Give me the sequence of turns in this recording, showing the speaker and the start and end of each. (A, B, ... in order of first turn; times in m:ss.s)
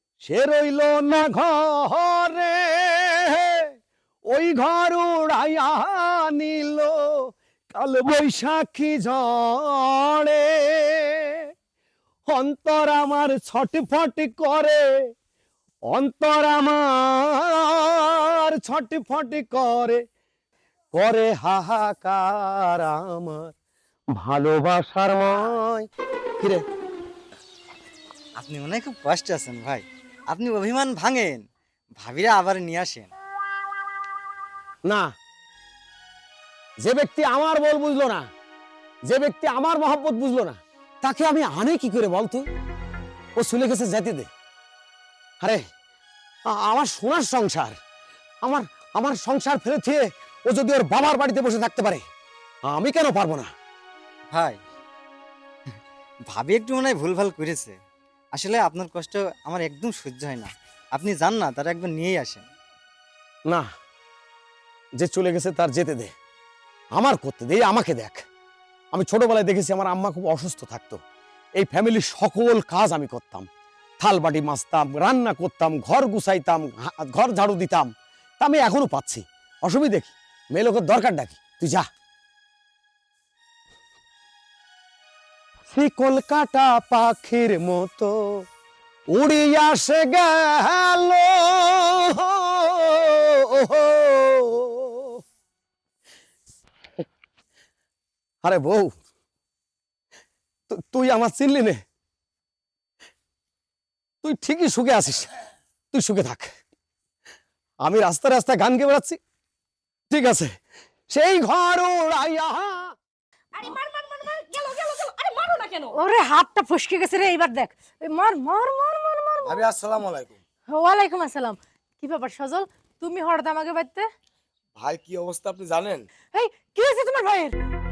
0:00.2-0:03.6 A
0:04.3-0:06.9 A
0:07.7-0:11.4 A
0:12.3-0:14.8 A
0:15.9-0:20.0 A
0:20.9-0:23.5 A
0:24.2-0:25.9 A
0:26.4-0:26.6 A
0:28.4-0:33.1 B
0:36.8-0:38.2 A
0:39.1-0:42.4 A
0:43.4-0:44.3 A
0:46.5-0:47.7 A
0:48.4-0:52.0 A
0:52.7-0:53.5 A
0:54.3-0:54.6 B
0:56.3-0:57.8 B
0:58.3-1:02.5 B
1:05.0-1:06.1 A
1:07.0-1:08.2 A
1:08.9-1:11.0 A
1:11.6-1:13.5 A
1:14.0-1:21.8 A
1:25.7-1:28.1 A
1:29.2-1:35.2 A
1:38.4-1:38.9 A
1:40.7-1:41.8 A
1:44.2-1:45.3 A
1:45.9-1:46.5 A
1:47.8-1:49.2 A
1:50.1-1:50.5 A
1:51.1-1:52.9 A
1:53.5-1:55.9 C
1:55.9-1:59.7 D
1:59.5-2:00.3 E
2:00.7-2:04.1 D
2:04.8-2:06.0 E
2:06.3-2:07.5 D